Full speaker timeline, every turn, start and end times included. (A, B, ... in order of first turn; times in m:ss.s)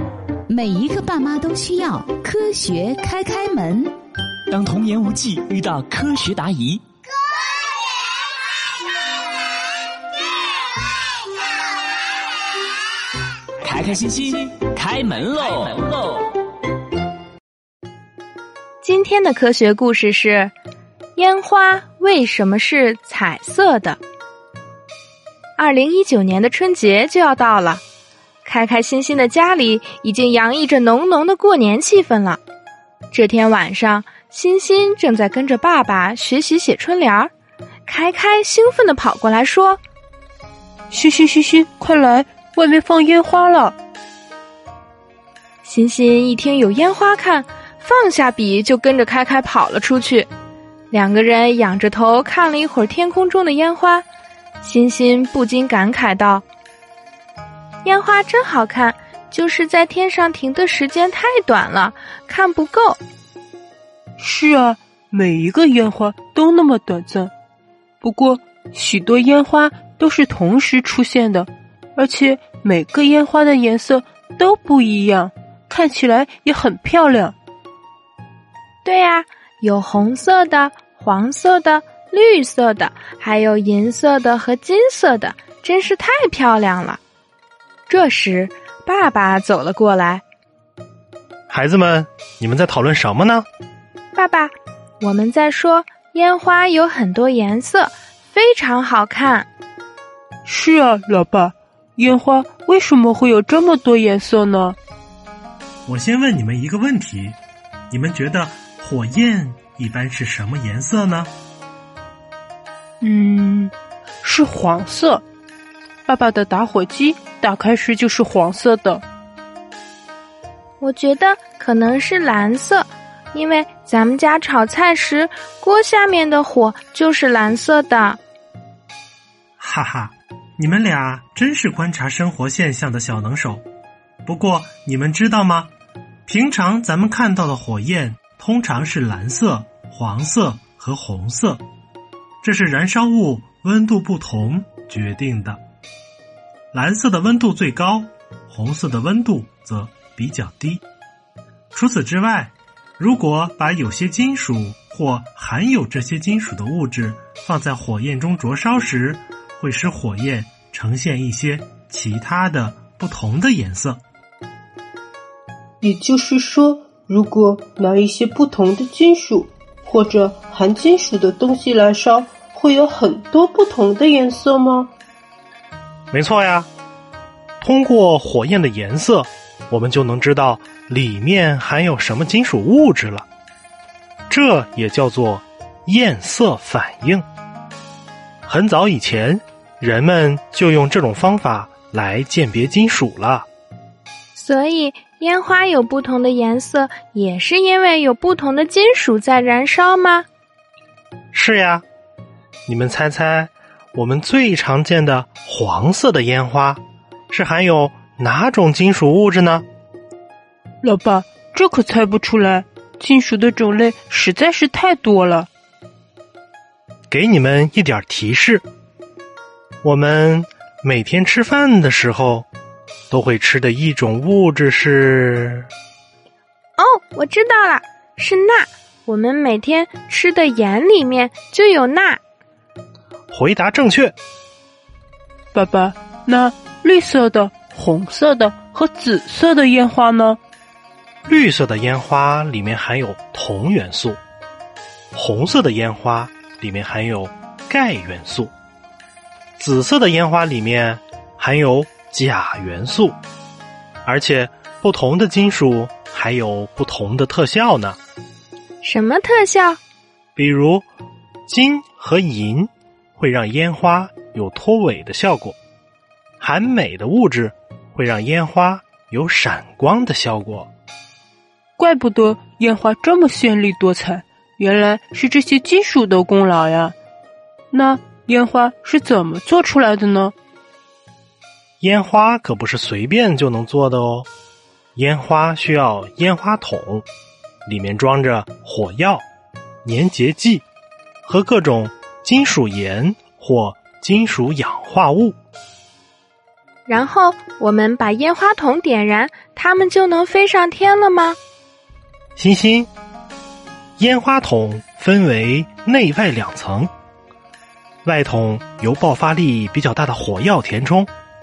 0:00.5-0:03.9 A
0:04.5-0:06.8 B
0:13.6-0:16.2 B
0:18.8-0:20.5 C
0:21.2-0:24.0 C
0:25.6-0:27.8 C
0:28.4-0:32.4 C
0:33.1-0:37.3 C
0:37.8-0:39.8 C
0:40.9-0:43.7 D
0:45.6-0:50.3 C
0:50.9-0:54.0 C
0:54.6-0:56.4 C
0:57.8-1:03.0 C
1:04.2-1:07.3 D
1:08.0-1:17.3 D
1:18.8-1:27.0 C
1:27.9-1:30.2 C
1:31.5-1:33.5 E
1:34.1-1:39.5 C
1:40.4-1:44.8 D
1:45.8-1:47.4 E
1:47.9-1:51.3 E
1:53.0-1:55.2 D
1:56.0-1:59.0 D
2:00.8-2:08.2 C
2:09.6-2:13.6 E
2:14.2-2:15.7 E
2:16.2-2:21.6 E
2:22.4-2:25.6 E
2:26.7-2:30.8 E
2:31.7-2:44.0 E
2:45.8-2:54.9 D
2:56.1-2:56.7 E
2:57.6-3:03.2 E
3:04.3-3:07.2 E
3:08.4-3:13.5 E
3:14.3-3:20.2 C
3:21.3-3:21.8 E
3:22.7-3:29.6 E
3:30.8-3:35.5 D
3:37.1-3:38.6 E
3:39.8-3:42.5 E
3:43.1-3:45.7 E
3:46.8-3:52.2 C
3:53.3-3:54.1 E
3:55.5-4:00.4 D
4:01.2-4:04.2 E
4:05.1-4:08.5 E
4:09.6-4:13.2 E
4:14.0-4:18.0 E
4:18.8-4:19.8 C
4:20.4-4:20.8 E
4:21.5-4:25.6 E
4:26.4-4:30.7 E
4:31.8-4:36.9 D
4:37.7-4:40.3 D
4:41.8-4:44.3 E
4:44.9-4:47.0 E
4:47.6-4:49.2 E
4:49.8-4:50.6 E
4:51.2-4:55.4 E
4:56.9-5:01.4 C
5:02.4-5:02.9 E
5:04.0-5:06.9 E
5:08.0-5:11.1 E